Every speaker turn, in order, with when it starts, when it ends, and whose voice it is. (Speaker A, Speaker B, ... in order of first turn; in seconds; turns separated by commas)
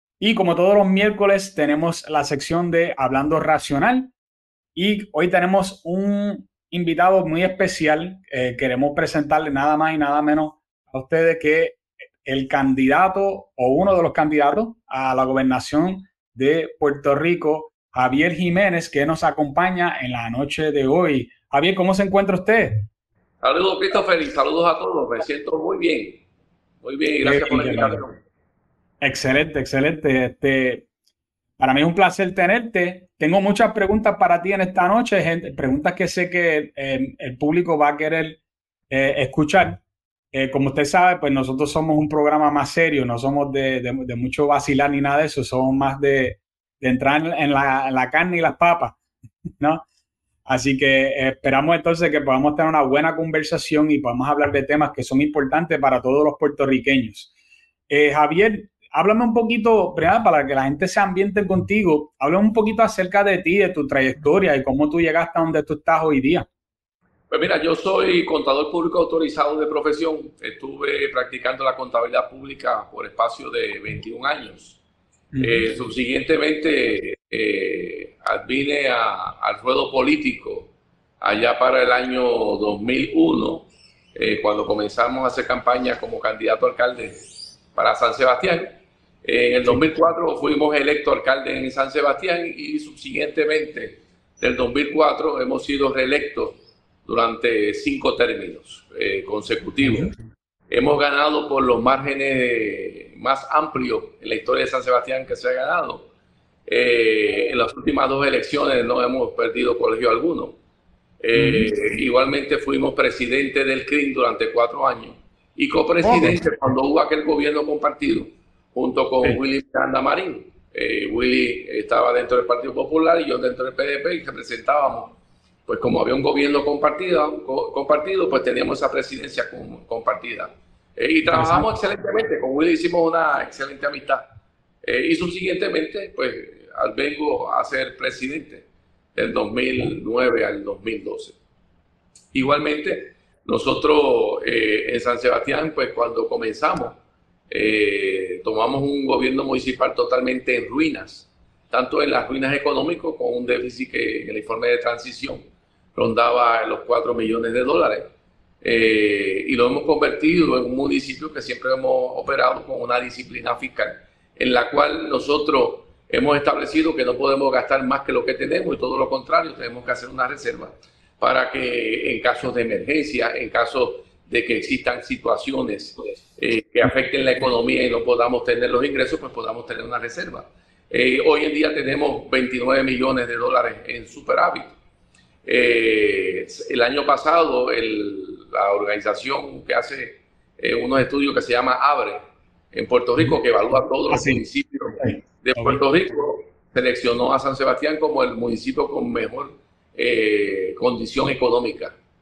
Speaker A: 0.2-4.1, Speaker A: 4.8-22.9, Speaker B: 23.4-26.2, Speaker B: 26.8-28.2, Speaker A: 27.2-28.0, Speaker A: 29.0-30.9, Speaker A: 31.6-38.4, Speaker A: 38.9-39.8, Speaker A: 40.3-49.0, Speaker A: 49.6-49.9, Speaker A: 50.5-57.3, Speaker A: 57.9-66.5, Speaker B: 67.3-74.8, Speaker A: 75.3-75.7, Speaker B: 75.4-87.2, Speaker B: 87.8-88.7, Speaker B: 89.2-100.1, Speaker A: 99.8-100.2, Speaker B: 100.7-106.1, Speaker B: 106.7-110.6, Speaker B: 111.2-134.3, Speaker A: 111.3-111.7, Speaker A: 116.0-116.4, Speaker A: 131.3-131.7, Speaker B: 134.8-141.4, Speaker B: 142.3-147.0, Speaker B: 147.5-155.4, Speaker B: 155.9-158.1, Speaker B: 158.6-184.8, Speaker B: 185.4-192.2, Speaker B: 192.7-202.0, Speaker A: 194.1-194.4, Speaker A: 195.0-195.8